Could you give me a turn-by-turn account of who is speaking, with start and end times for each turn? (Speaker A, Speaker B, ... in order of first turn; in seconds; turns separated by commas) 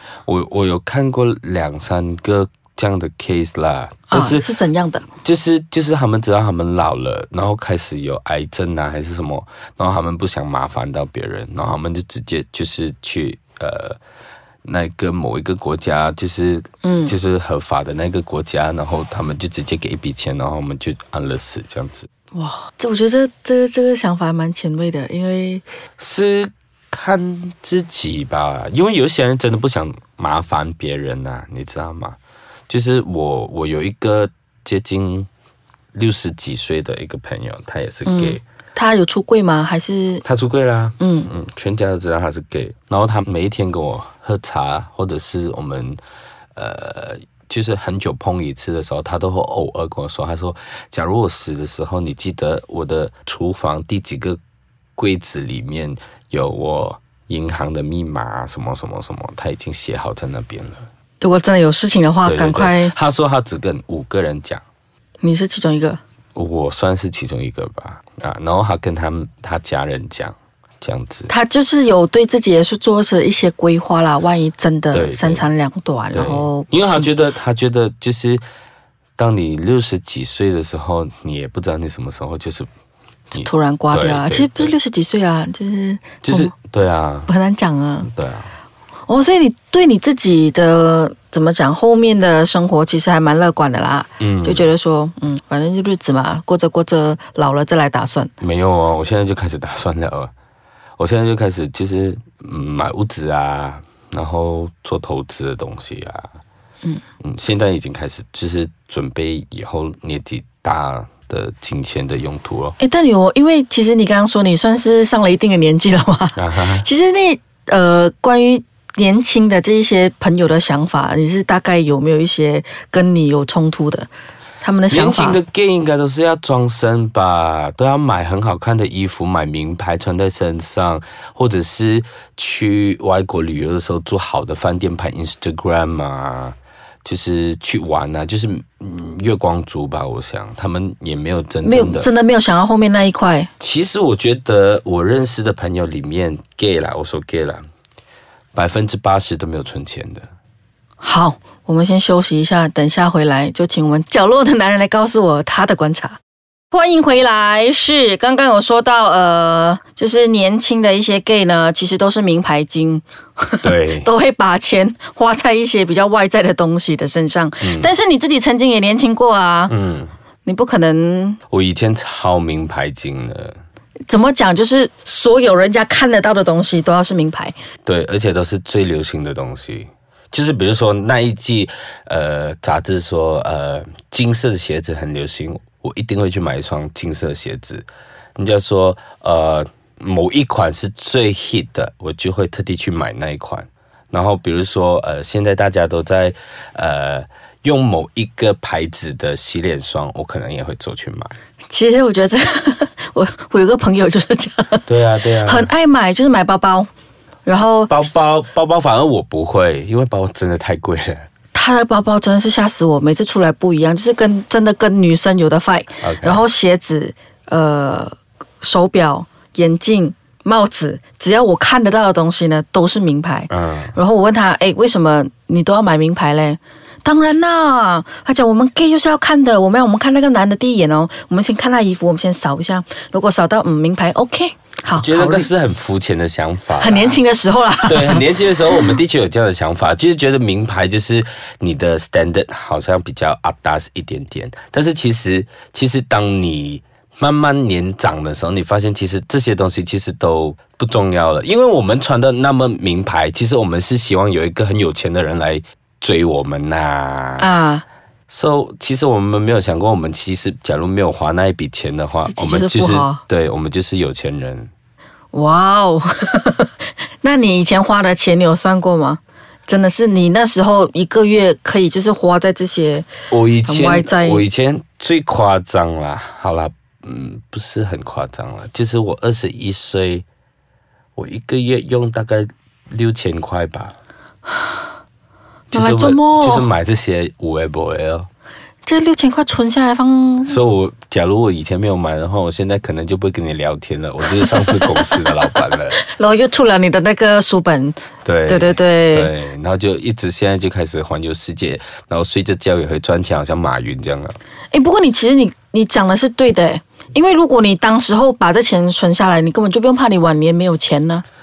Speaker A: 0.3-4.5, Speaker B: 4.1-5.0, Speaker A: 5.2-14.0, Speaker A: 14.6-22.1, Speaker B: 16.8-17.1, Speaker B: 22.3-25.6, Speaker A: 26.0-32.1, Speaker A: 32.7-35.3, Speaker A: 35.9-38.4, Speaker B: 38.0-40.2, Speaker A: 40.2-46.0, Speaker B: 41.0-41.3, Speaker A: 46.5-54.4, Speaker A: 55.0-60.9, Speaker B: 61.2-62.9, Speaker A: 62.2-64.6, Speaker B: 65.2-66.0, Speaker A: 66.3-71.3, Speaker B: 71.3-77.1, Speaker A: 74.9-75.4, Speaker A: 76.1-78.4, Speaker A: 79.2-82.7, Speaker B: 83.3-86.5, Speaker A: 83.3-84.7, Speaker A: 86.2-87.3, Speaker B: 87.3-88.1, Speaker A: 88.1-88.5, Speaker B: 89.1-98.3, Speaker A: 94.2-94.7, Speaker A: 98.4-100.3, Speaker A: 101.0-106.3, Speaker A: 107.2-112.8, Speaker B: 112.8-124.1, Speaker A: 116.3-116.8, Speaker B: 124.6-125.4, Speaker A: 124.9-142.1, Speaker B: 141.6-143.5, Speaker A: 143.6-147.6, Speaker A: 148.5-150.3, Speaker B: 151.0-156.2, Speaker B: 156.7-169.7, Speaker A: 163.6-164.1, Speaker A: 167.6-167.9, Speaker A: 169.7-170.1, Speaker B: 170.4-171.4, Speaker A: 171.5-173.6, Speaker B: 174.1-177.5, Speaker A: 177.8-187.8, Speaker A: 188.4-201.3, Speaker B: 201.7-204.9, Speaker A: 204.9-205.7, Speaker B: 205.4-206.9, Speaker B: 207.4-207.9, Speaker A: 207.9-211.3, Speaker B: 211.5-235.5, Speaker A: 216.0-216.4, Speaker A: 223.5-223.9, Speaker A: 235.0-237.2, Speaker B: 236.8-238.9, Speaker A: 237.8-257.5, Speaker B: 257.4-257.8, Speaker A: 258.3-264.7, Speaker B: 262.2-263.2, Speaker B: 265.3-273.1, Speaker A: 273.3-280.2, Speaker B: 273.6-274.4, Speaker A: 281.1-283.9, Speaker B: 285.7-286.7, Speaker A: 285.7-288.3, Speaker B: 288.9-290.6, Speaker A: 290.4-295.9, Speaker B: 294.3-295.1, Speaker B: 295.9-299.3, Speaker A: 298.2-304.4, Speaker B: 304.7-311.2